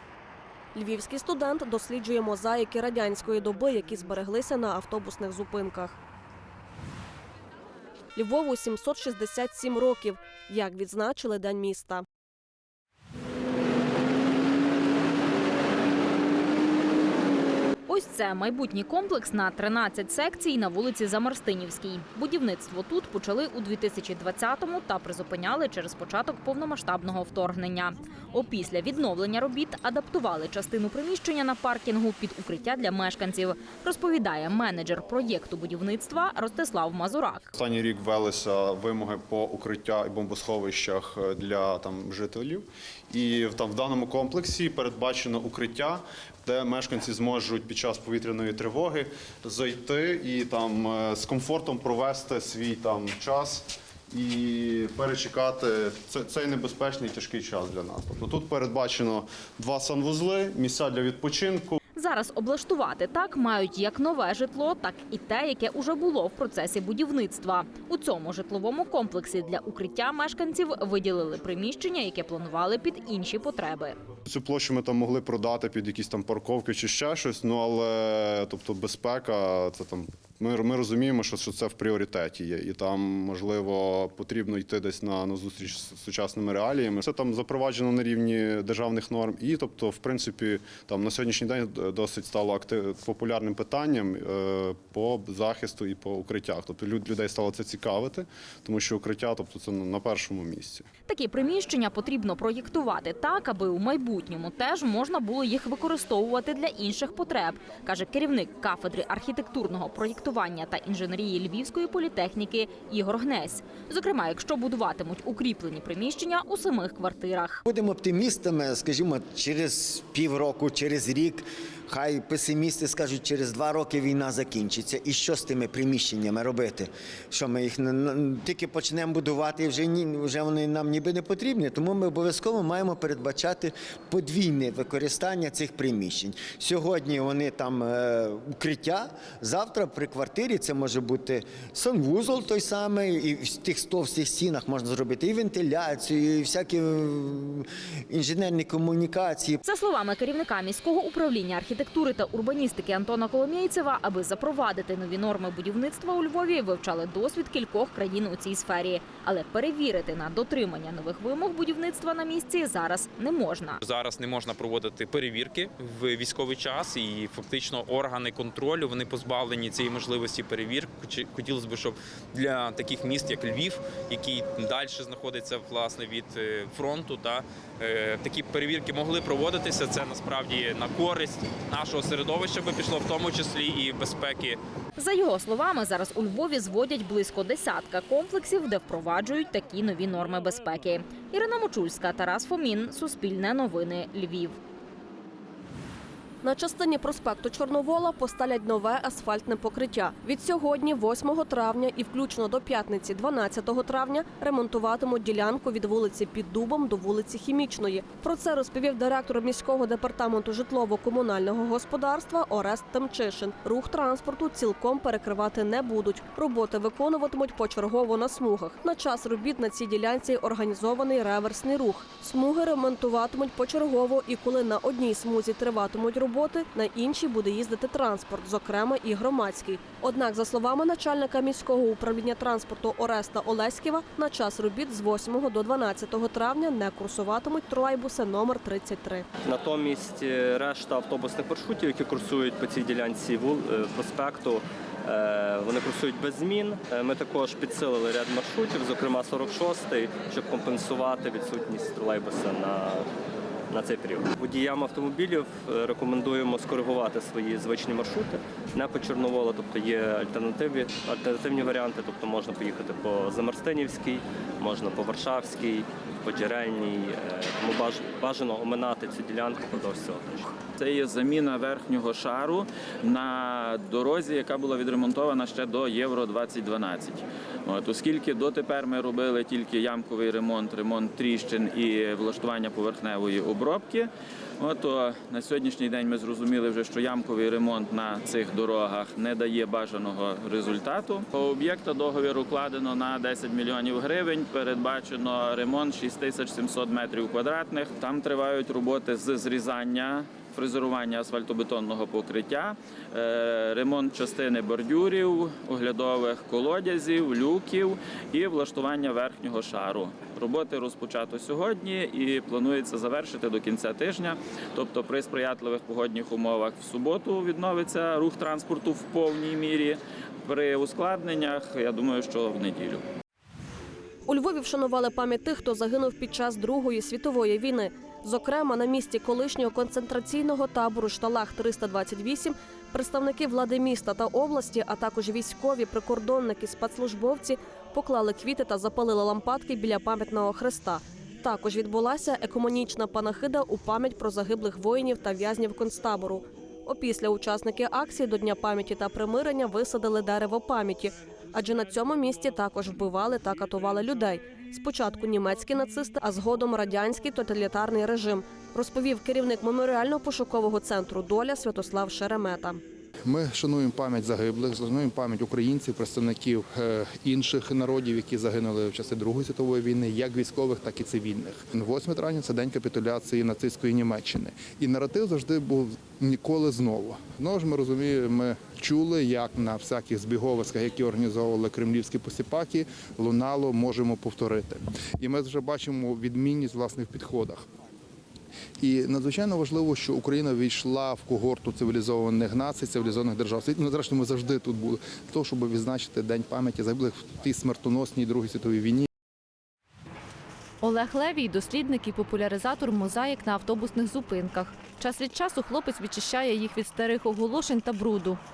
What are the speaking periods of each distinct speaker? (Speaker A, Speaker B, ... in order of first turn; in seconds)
Speaker A: 0.7-6.0, 8.2-12.0, 196.4-239.2, 324.3-362.8
Speaker B: 17.9-37.5, 62.0-74.0, 101.1-117.6, 149.6-163.8, 185.0-194.6
Speaker C: 37.5-61.8, 74.3-100.8
Speaker D: 117.7-149.6
Speaker E: 163.8-184.6
Speaker F: 239.4-253.1, 253.7-270.6
Speaker G: 270.8-323.0
Speaker H: 363.2-387.6, 388.8-399.1
Speaker I: 400.8-408.4